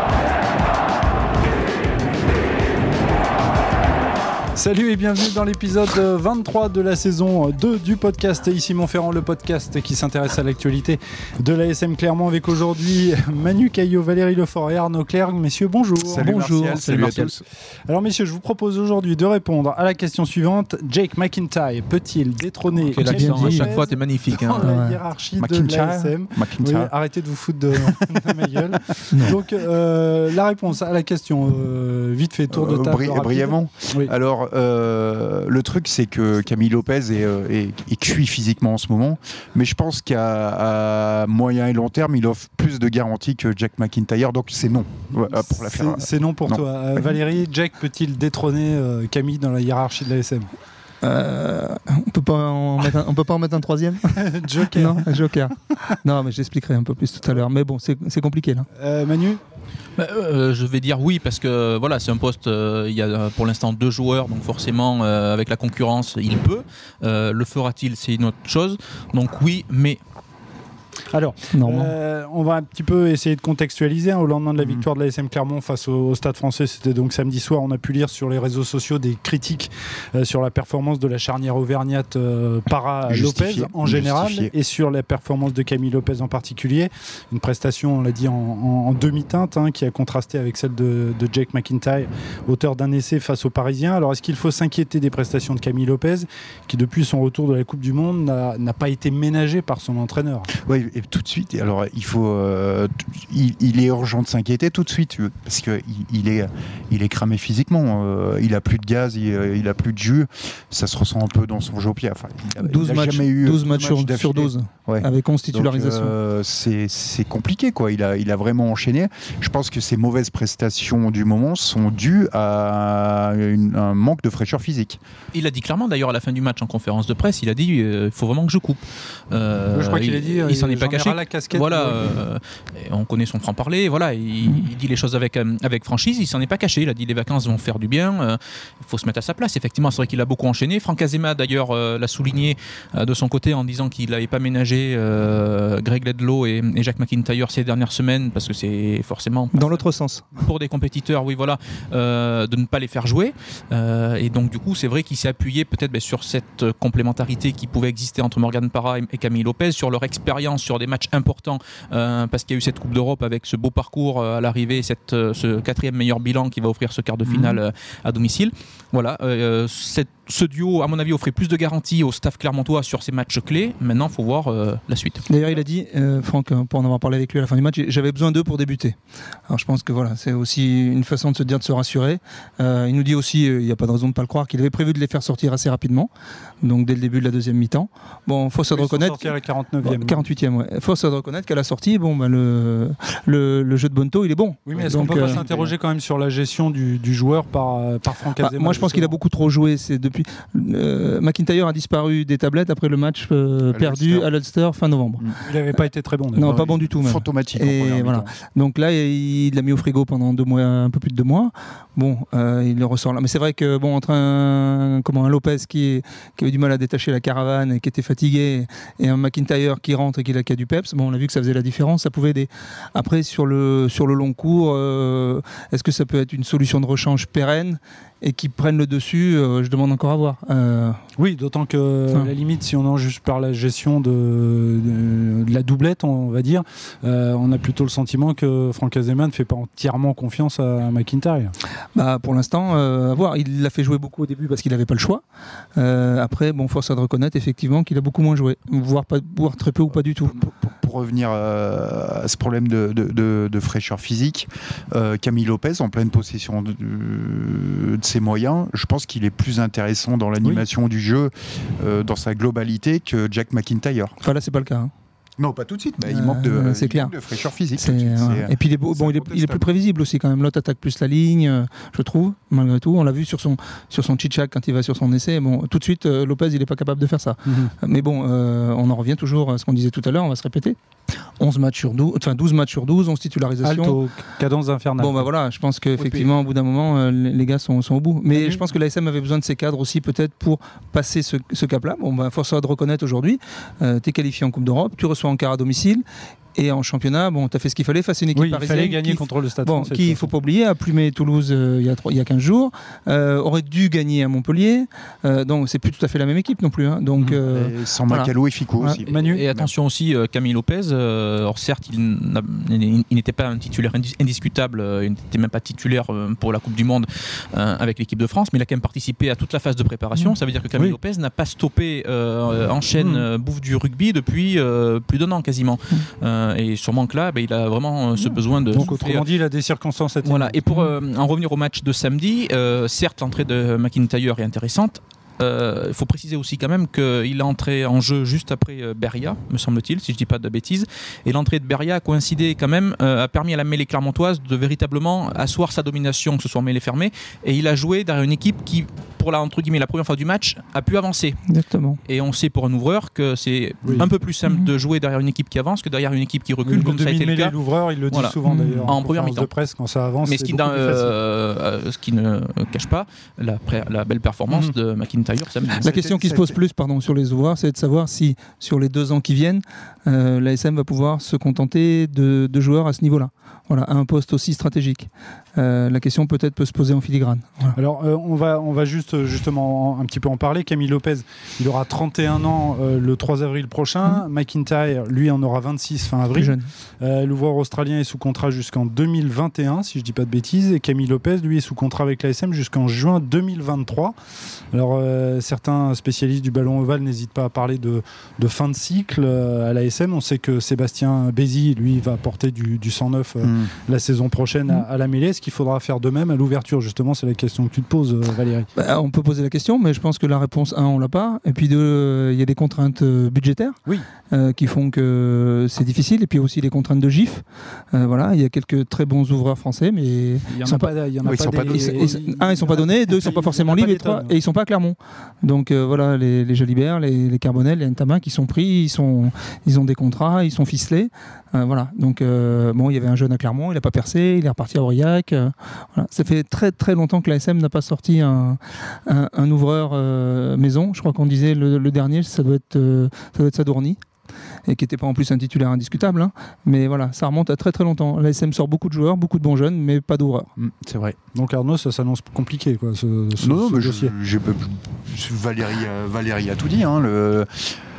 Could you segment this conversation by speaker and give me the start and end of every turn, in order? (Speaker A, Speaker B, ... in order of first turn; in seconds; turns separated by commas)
Speaker A: 4.5-16.4, Speaker B: 16.0-17.4, Speaker C: 16.2-17.0, Speaker D: 16.7-17.3, Speaker A: 17.9-34.1, Speaker D: 22.7-24.7, Speaker C: 23.0-23.8, Speaker C: 24.6-25.0, Speaker B: 25.4-26.9, Speaker C: 29.1-29.4, Speaker B: 32.5-46.6, Speaker A: 45.2-50.5, Speaker C: 51.0-58.7, Speaker A: 54.1-55.2, Speaker A: 58.8-59.4, Speaker D: 60.0-70.0, Speaker A: 71.1-100.5, Speaker C: 71.5-71.9, Speaker B: 83.0-84.5, Speaker B: 100.5-125.0, Speaker C: 112.6-116.1, Speaker D: 125.3-149.8, Speaker A: 129.7-132.2, Speaker C: 149.5-150.2, Speaker D: 150.3-175.2, Speaker C: 175.3-178.9, Speaker C: 179.5-186.1, Speaker C: 186.6-195.4, Speaker A: 188.7-190.2, Speaker A: 194.7-199.2, Speaker B: 194.7-195.7, Speaker C: 198.4-205.3, Speaker B: 203.7-204.3, Speaker A: 205.4-206.6, Speaker C: 206.3-231.0, Speaker B: 206.4-208.3, Speaker A: 231.2-241.5, Speaker C: 241.9-245.2, Speaker C: 245.8-250.3, Speaker B: 250.3-264.2, Speaker C: 264.2-264.9, Speaker B: 265.4-269.7, Speaker C: 266.0-267.1, Speaker C: 267.8-280.8, Speaker A: 277.5-277.7, Speaker C: 281.4-284.0, Speaker A: 283.6-285.2, Speaker C: 285.0-296.0, Speaker A: 286.0-286.3, Speaker A: 288.3-288.6, Speaker C: 296.6-309.0, Speaker A: 298.3-300.3, Speaker B: 307.4-309.7, Speaker A: 309.1-309.4, Speaker D: 309.2-329.2, Speaker A: 323.0-323.3, Speaker A: 328.7-330.6, Speaker D: 330.2-351.4, Speaker C: 351.5-352.0, Speaker D: 352.1-357.6, Speaker A: 353.8-354.1, Speaker A: 356.6-361.1, Speaker D: 358.1-359.5, Speaker C: 358.4-358.9, Speaker D: 360.2-365.9, Speaker B: 365.7-366.6, Speaker C: 365.8-377.8, Speaker A: 377.8-394.1, Speaker C: 386.3-386.7, Speaker A: 394.7-408.7, Speaker B: 403.4-403.7, Speaker C: 408.8-413.8, Speaker C: 414.3-444.0, Speaker A: 420.5-424.4, Speaker B: 421.2-422.1, Speaker C: 444.6-450.5, Speaker A: 450.8-454.1, Speaker B: 453.4-457.8